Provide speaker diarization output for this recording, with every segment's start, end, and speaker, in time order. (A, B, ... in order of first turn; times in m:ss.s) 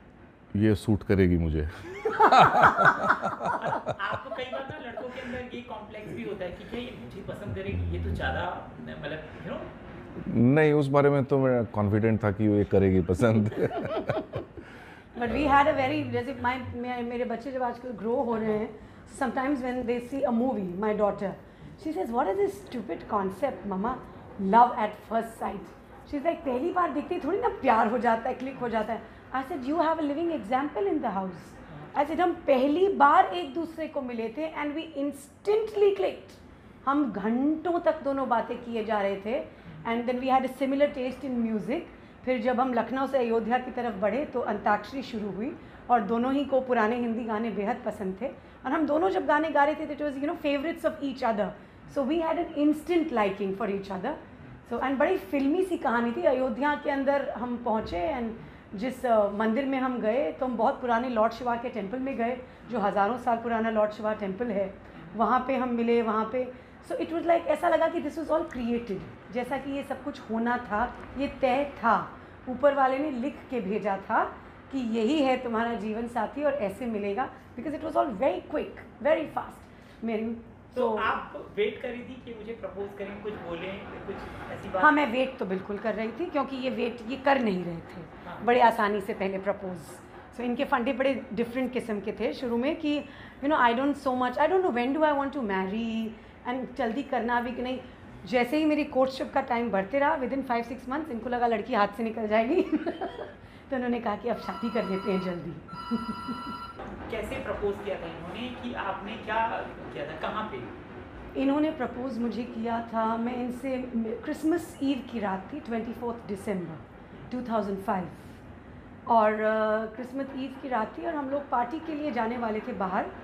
0:00.5-0:03.8 A
0:03.3-0:09.7 B
0:10.2-0:14.2 A
0:13.8-0:14.2 C
0:15.1-1:21.2 C
1:20.7-1:25.0 B
1:24.8-1:46.5 C
1:28.2-1:28.5 B
1:46.8-1:50.7 B
1:51.3-1:58.3 C
1:59.1-2:03.1 C